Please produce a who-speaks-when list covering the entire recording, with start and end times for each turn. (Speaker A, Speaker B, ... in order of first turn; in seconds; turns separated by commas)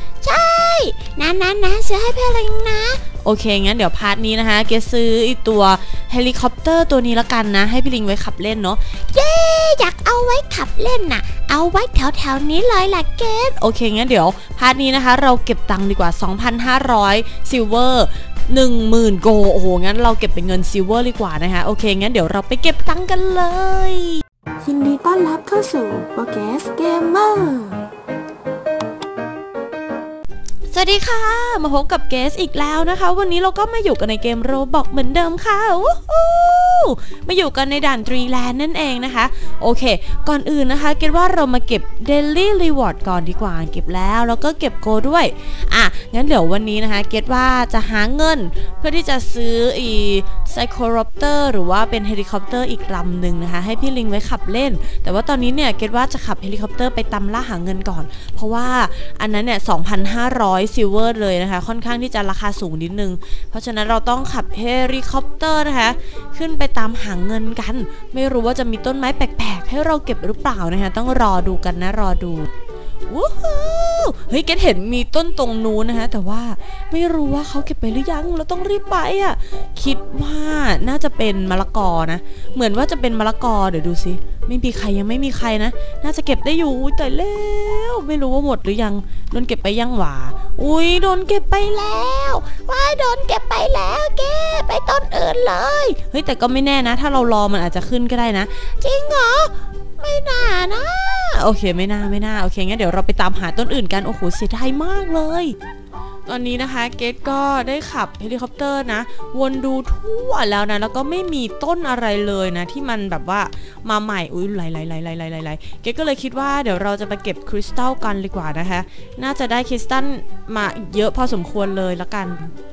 Speaker A: 0.2-3.1, Speaker B: 3.2-9.0, Speaker A: 9.1-13.6, Speaker B: 13.6-24.2, Speaker C: 24.6-27.8, Speaker A: 26.6-27.1, Speaker B: 30.7-72.5, Speaker B: 73.1-93.0, Speaker A: 92.7-96.0, Speaker B: 95.9-99.5, Speaker A: 98.8-99.3, Speaker A: 100.0-101.1, Speaker B: 101.1-105.5, Speaker B: 106.3-122.5